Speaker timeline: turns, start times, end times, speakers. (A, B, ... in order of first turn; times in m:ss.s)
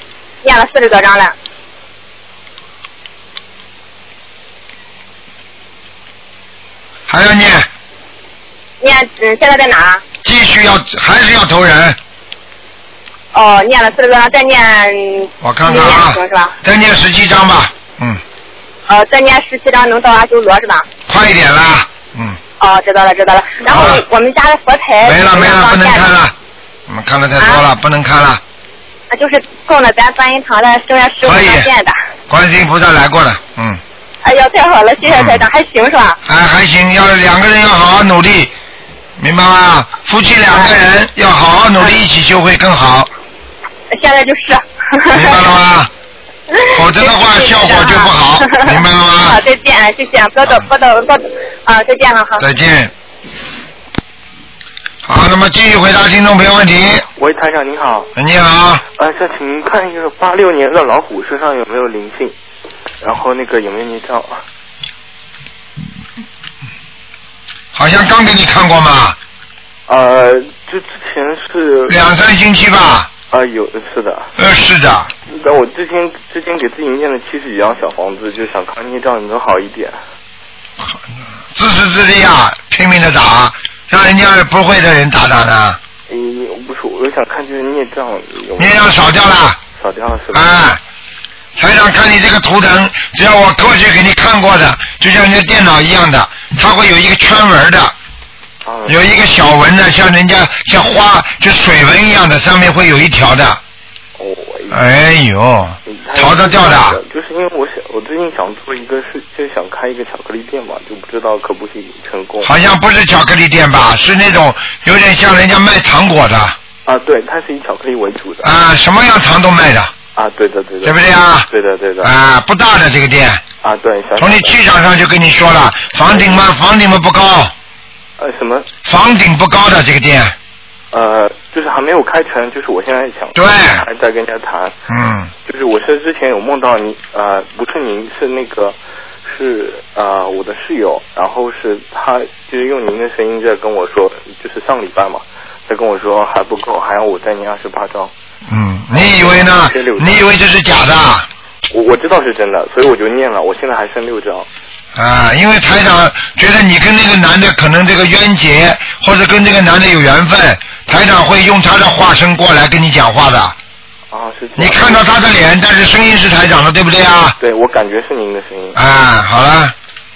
0:00.4-0:01.3 A
0:07.1-0:07.7 B
0:08.8-0:10.0 A
0:10.2-0:12.0 B
0:13.3-0:16.5 A
0:15.4-0:18.2 B
0:18.9-0:20.8 A
0:21.1-0:22.4 B
0:22.6-0:26.1 A
0:23.7-0:24.0 B
0:25.0-0:26.3 B
0:26.9-0:28.4 B
0:29.1-0:31.9 A
0:31.2-0:31.7 B
0:32.3-0:33.8 B
0:34.2-0:36.2 A
0:35.1-0:35.4 B
0:36.2-0:38.5 B
0:39.2-0:43.1 B
0:43.9-0:45.4 A
0:45.1-0:45.9 B
0:46.5-0:52.4 A
0:46.7-0:49.4 B
0:52.4-0:52.9 B
0:55.0-0:57.0 B
0:57.2-0:58.1 C
0:58.2-0:58.8 B
0:59.0-1:02.3 C
1:03.0-1:04.4 C
1:07.7-1:09.2 B
1:09.9-1:12.0 C
1:11.9-1:13.1 B
1:13.3-1:14.3 C
1:14.4-1:15.1 B
1:15.3-1:20.0 C
1:21.5-1:25.8 B
1:26.1-1:29.0 C
1:28.6-1:29.6 B
1:29.7-1:30.5 C
1:30.3-1:30.8 B
1:31.6-1:37.9 B
1:38.6-1:39.0 C
1:38.9-1:43.6 B
1:44.2-1:44.8 C
1:44.7-1:47.0 B
1:45.8-1:52.5 C
1:52.4-1:56.6 B
1:56.8-1:58.5 C
1:58.4-1:59.9 B
2:00.2-2:01.0 C
2:00.8-2:01.5 B
2:01.5-2:02.1 C
2:02.0-2:03.4 B
2:03.6-2:04.6 C
2:04.2-2:07.5 B
2:06.1-2:06.4 C
2:08.2-2:08.7 C
2:08.8-2:10.3 B
2:10.9-2:14.7 C
2:13.3-2:13.8 B
2:14.9-2:15.3 B
2:15.4-2:28.1 C
2:28.5-2:31.3 B
2:28.9-2:30.2 C
2:31.7-2:34.5 C
2:35.0-2:43.6 B
2:44.1-2:45.0 C
2:44.6-2:47.4 B
2:47.4-2:48.8 C
2:48.7-2:49.7 B